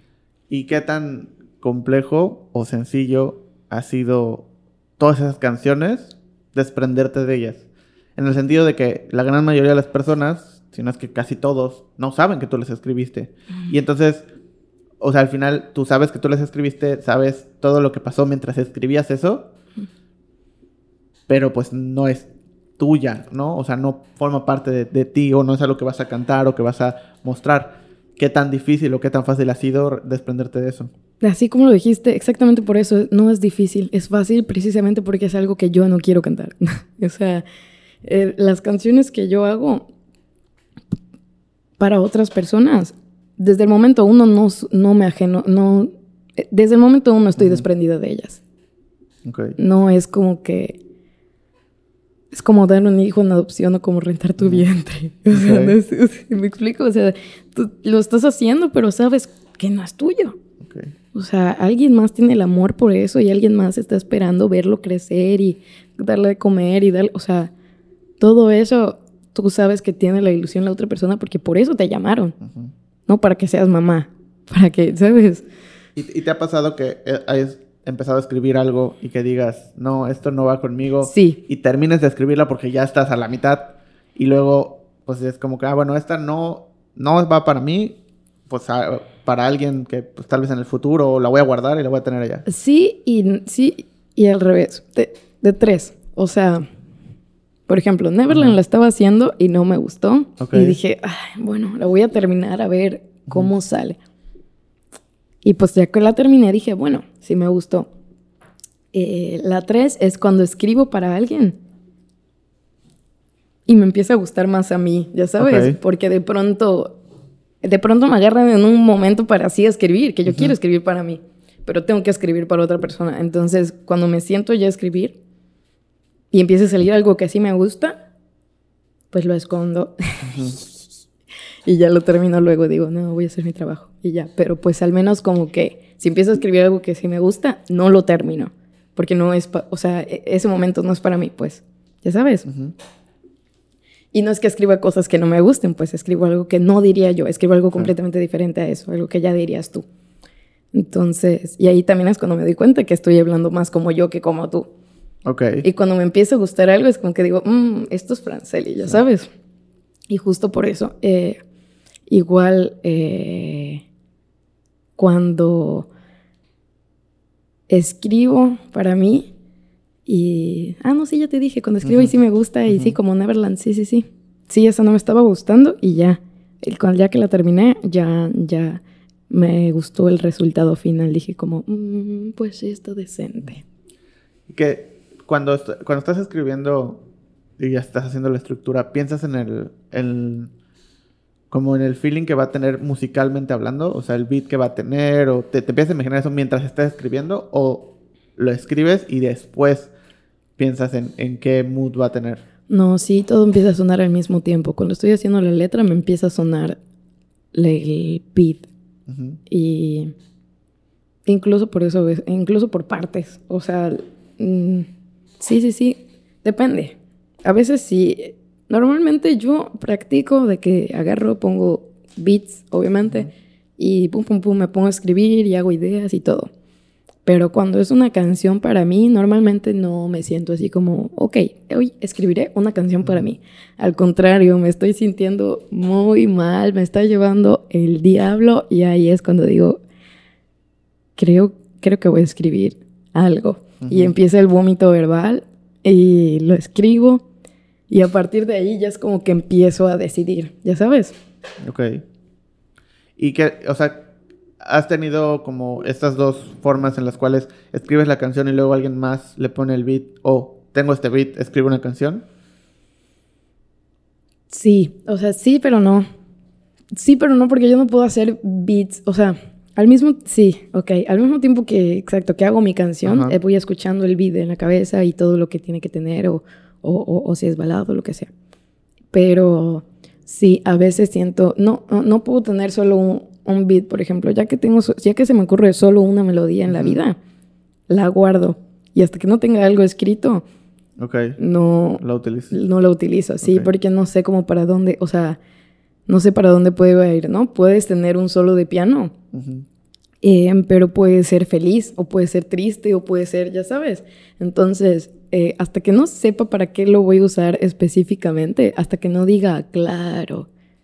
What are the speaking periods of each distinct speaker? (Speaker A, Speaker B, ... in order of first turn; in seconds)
Speaker A: 0.5-4.5, 5.0-7.7, 8.2-14.2, 15.0-19.5, 21.3-22.3, 22.8-30.9, 47.4-47.6, 49.2-49.6, 54.4-54.6, 55.3-55.8, 60.6-61.0, 72.4-72.7, 76.0-88.0, 88.5-92.5, 98.3-98.5, 100.4-100.8, 115.4-115.8, 120.3-120.5, 130.2-130.6, 142.5-142.7, 155.2-155.7, 171.8-172.1, 172.7-172.9, 184.5-187.0, 187.6-190.5, 191.5-199.9, 200.6-202.4, 209.1-209.4, 243.8-244.1, 251.6-252.0, 253.2-254.1, 254.6-262.2, 273.1-273.4, 286.7-287.0, 291.0-291.4, 292.0-292.6, 293.4-293.7, 299.3-299.7
Speaker B: 31.2-37.5, 38.0-39.9, 41.8-48.4, 49.6-50.8, 52.3-60.4, 61.1-67.5, 68.2-72.4, 73.1-75.5, 81.0-81.4, 92.5-96.7, 97.7-104.0, 105.4-107.9, 108.9-111.6, 113.7-117.0, 117.6-125.2, 126.3-128.0, 129.1-130.7, 131.7-142.5, 144.1-149.8, 150.7-154.7, 155.6-159.3, 160.1-161.4, 162.1-163.8, 165.0-165.9, 167.7-169.3, 170.1-183.6, 202.7-206.8, 207.5-208.7, 209.5-210.1, 211.3-214.9, 215.4-226.5, 227.3-239.8, 241.2-247.2, 247.9-251.2, 264.5-266.1, 266.9-278.3, 279.1-287.2, 287.9-290.4, 291.4-295.4, 296.1-299.1, 300.2-310.5